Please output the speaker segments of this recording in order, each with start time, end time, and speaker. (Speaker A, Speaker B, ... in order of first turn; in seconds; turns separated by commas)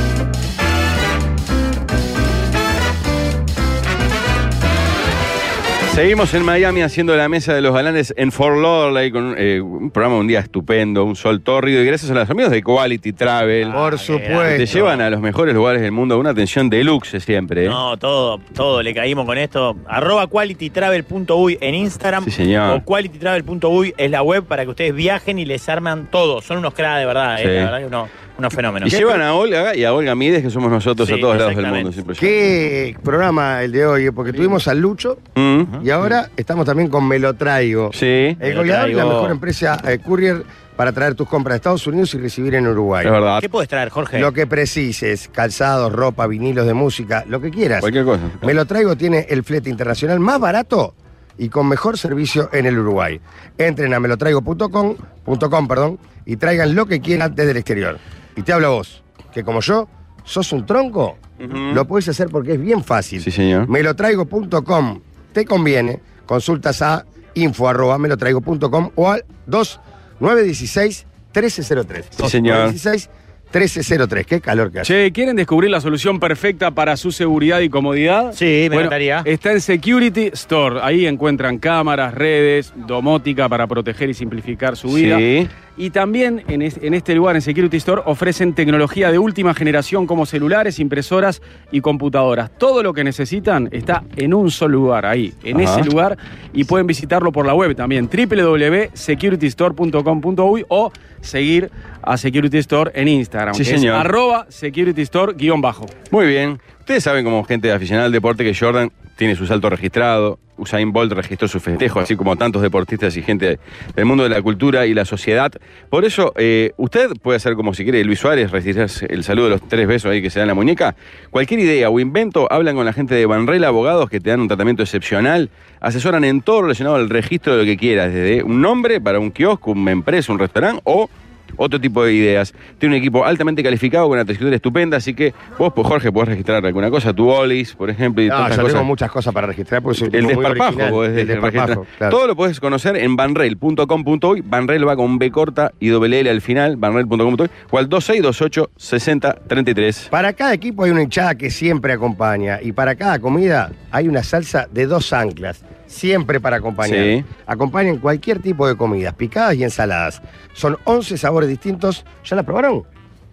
Speaker A: 5.9-13.8, Speaker B: 13.6-15.0, Speaker C: 13.7-14.8, Speaker A: 14.4-17.8, Speaker B: 17.6-29.2, Speaker A: 22.2-22.8, Speaker A: 27.4-27.7, Speaker A: 28.8-32.4, Speaker B: 31.0-31.9, Speaker C: 32.2-35.2, Speaker A: 35.4-35.7, Speaker C: 35.8-43.1, Speaker A: 37.9-38.4, Speaker B: 38.4-39.4, Speaker A: 43.0-43.5, Speaker B: 43.4-44.3, Speaker C: 44.1-74.9, Speaker A: 47.8-48.5, Speaker A: 61.4-61.9, Speaker A: 63.2-63.7, Speaker A: 72.2-72.8, Speaker D: 74.8-85.2, Speaker B: 78.3-79.3, Speaker A: 84.9-85.5, Speaker D: 85.8-105.9, Speaker A: 95.5-95.9, Speaker A: 103.5-104.1, Speaker A: 106.1-138.9, Speaker C: 138.3-142.2, Speaker A: 140.1-150.1, Speaker C: 150.1-162.8, Speaker A: 156.8-157.3